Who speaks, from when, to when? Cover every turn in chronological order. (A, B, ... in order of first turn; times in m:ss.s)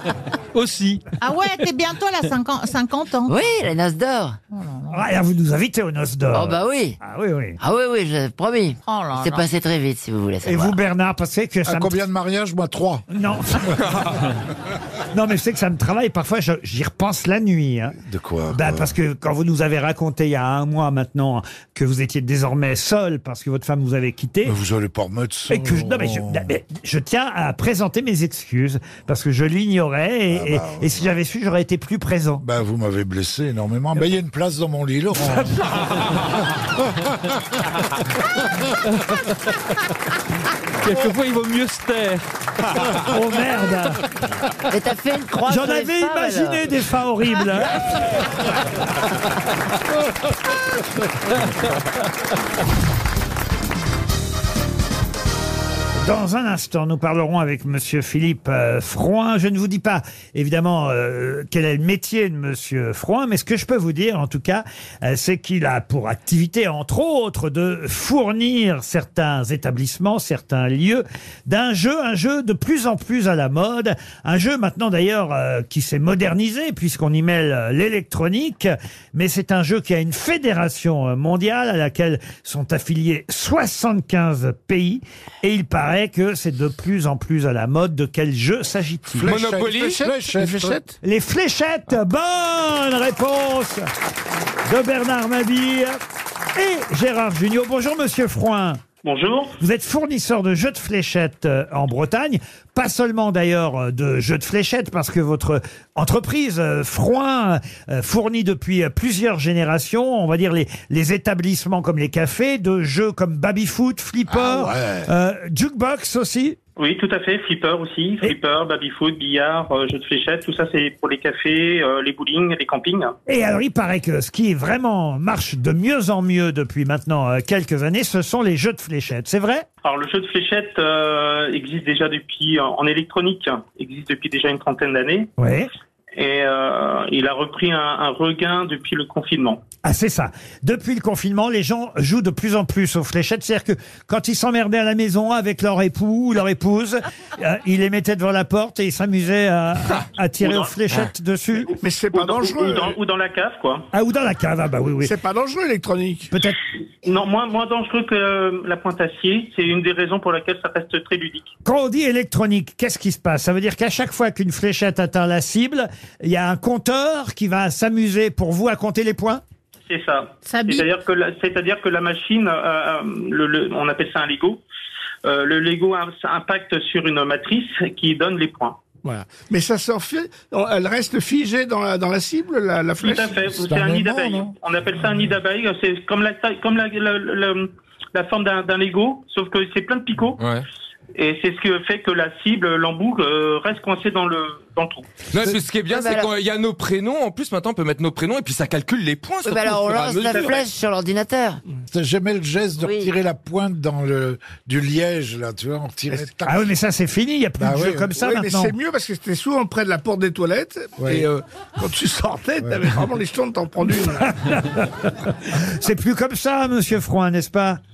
0:00.5-0:01.1 A
0:01.2-0:03.4 B
0:03.3-0:04.4 C
0:04.5-0:05.0 B
0:04.9-0:07.6 D
0:06.3-0:07.0 C
0:07.6-0:10.7 C
0:08.9-0:09.5 B
0:10.4-0:12.0 D
0:11.6-0:13.7 E
0:13.1-0:13.8 D
0:15.1-0:18.0 D
0:18.0-0:19.0 E
0:18.5-0:24.6 D
0:24.4-0:26.5 E
0:25.5-0:32.4 D
0:30.3-0:31.1 E
0:32.4-0:35.7 E
0:40.8-0:42.2 A
0:43.0-0:44.0 D
0:44.7-0:46.6 C
0:45.5-0:47.8 D
0:56.0-1:29.3 D
1:29.1-1:30.8 E
1:29.2-1:30.0 F
1:30.2-1:30.9 G
1:31.0-1:33.9 D
1:34.7-1:36.0 D
1:36.6-1:38.8 D
1:39.0-1:39.5 H
1:39.6-1:56.6 D
1:54.3-1:55.1 E
1:56.8-2:03.1 H
2:03.3-2:09.6 D
2:09.8-2:15.3 H
2:15.4-2:15.7 D
2:16.2-2:19.6 H
2:19.8-2:31.7 D
2:30.4-2:30.7 H
2:31.6-2:33.9 H
2:31.8-2:33.0 G
2:33.9-2:35.1 D
2:35.0-2:36.3 G
2:36.3-2:36.6 D
2:37.0-2:41.5 H
2:41.6-2:49.4 D
2:49.9-2:54.6 H
2:50.4-2:50.9 B
2:55.2-2:58.8 H
2:59.0-3:03.4 G
3:03.0-3:10.4 H
3:03.4-3:04.5 E
3:10.4-3:10.6 F
3:11.2-3:15.0 H
3:15.3-3:20.7 F
3:15.9-3:16.3 C
3:19.4-3:21.6 C
3:21.9-3:26.7 E
3:22.8-3:23.1 C
3:26.5-3:28.7 D
3:27.6-3:28.1 E
3:28.2-3:34.3 G
3:31.0-3:31.3 E
3:32.6-3:32.9 E
3:34.1-3:37.8 D